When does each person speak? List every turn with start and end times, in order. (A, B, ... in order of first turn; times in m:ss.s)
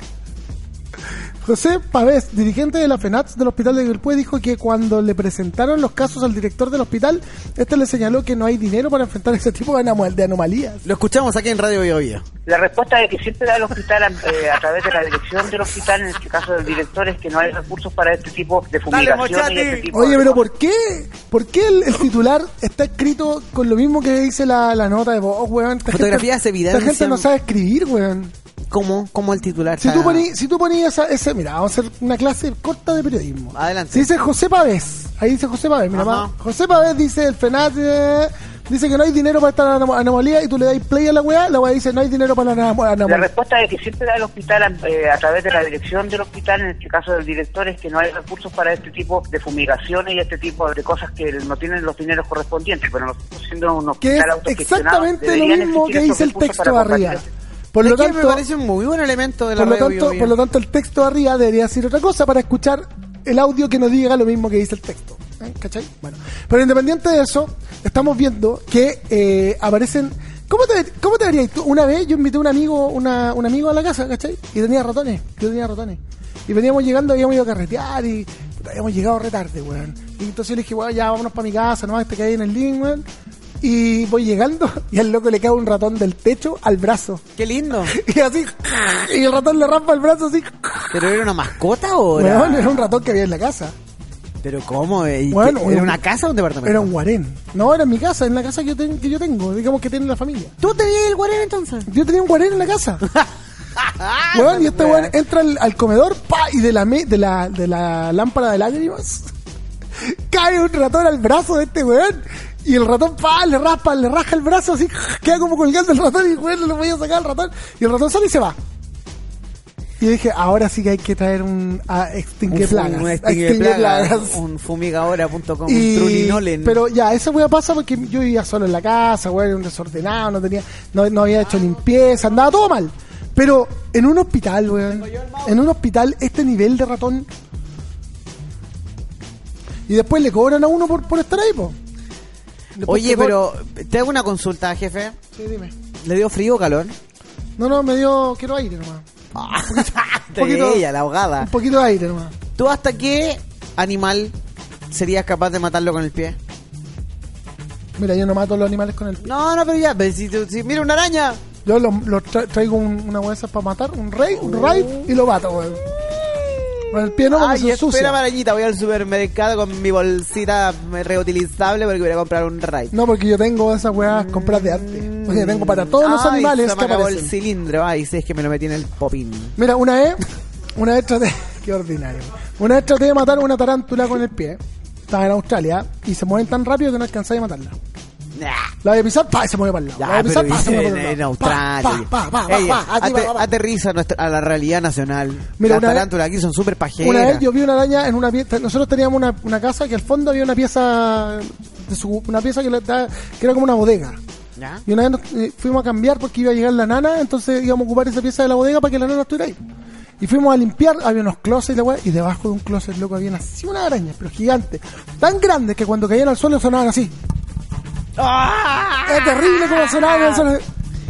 0:01.4-0:10.8 A
0:10.8-0:12.2 B
0:12.5-0:20.4 C
0:18.9-0:19.9 B
0:19.9-0:28.3 A
0:25.9-0:27.3 B
0:28.7-0:30.2 B
0:29.8-0:43.3 A
0:33.5-0:34.1 B
0:35.9-0:36.3 B
0:43.1-0:57.2 C
0:54.0-0:58.4 A
0:57.8-1:00.3 B
0:59.6-1:23.0 A
1:23.6-1:27.2 A
1:27.4-1:27.9 B
1:27.9-1:31.2 A
1:30.9-1:32.9 B
1:32.1-1:33.7 A
1:34.4-1:36.9 B
1:35.3-1:36.0 A
1:36.6-1:40.5 A
1:40.6-1:41.9 B
1:41.9-1:43.0 A
1:43.8-1:45.1 B
1:44.3-1:49.3 A
1:50.0-1:58.6 A
2:00.0-2:04.4 A
2:02.5-2:06.8 B
2:05.7-2:17.3 A
2:11.4-2:12.6 B
2:14.9-2:15.6 B
2:19.9-2:21.8 A
2:22.8-2:23.4 A
2:22.8-2:25.2 B
2:25.3-2:25.7 A
2:26.0-2:26.9 B
2:27.6-2:29.0 A
2:29.3-2:31.5 B
2:29.7-2:30.8 A
2:31.4-2:32.3 A
2:32.6-2:34.3 B
2:34.9-2:36.4 B
2:38.0-2:39.3 A
2:39.2-2:41.4 B
2:41.6-2:45.8 A
2:44.4-2:45.1 B
2:46.0-2:52.9 B
2:46.9-2:48.2 A
2:52.9-2:57.3 A
2:54.0-2:59.5 B
2:59.6-3:00.2 A
3:00.8-3:07.8 A
3:08.3-3:08.7 B
3:08.8-3:13.5 A
3:10.0-3:17.4 B
3:15.6-3:16.1 A
3:17.0-3:24.2 A
3:24.6-3:24.8 B
3:24.8-3:29.6 A
3:30.2-3:37.1 A
3:38.2-3:40.5 B
3:39.0-3:40.6 A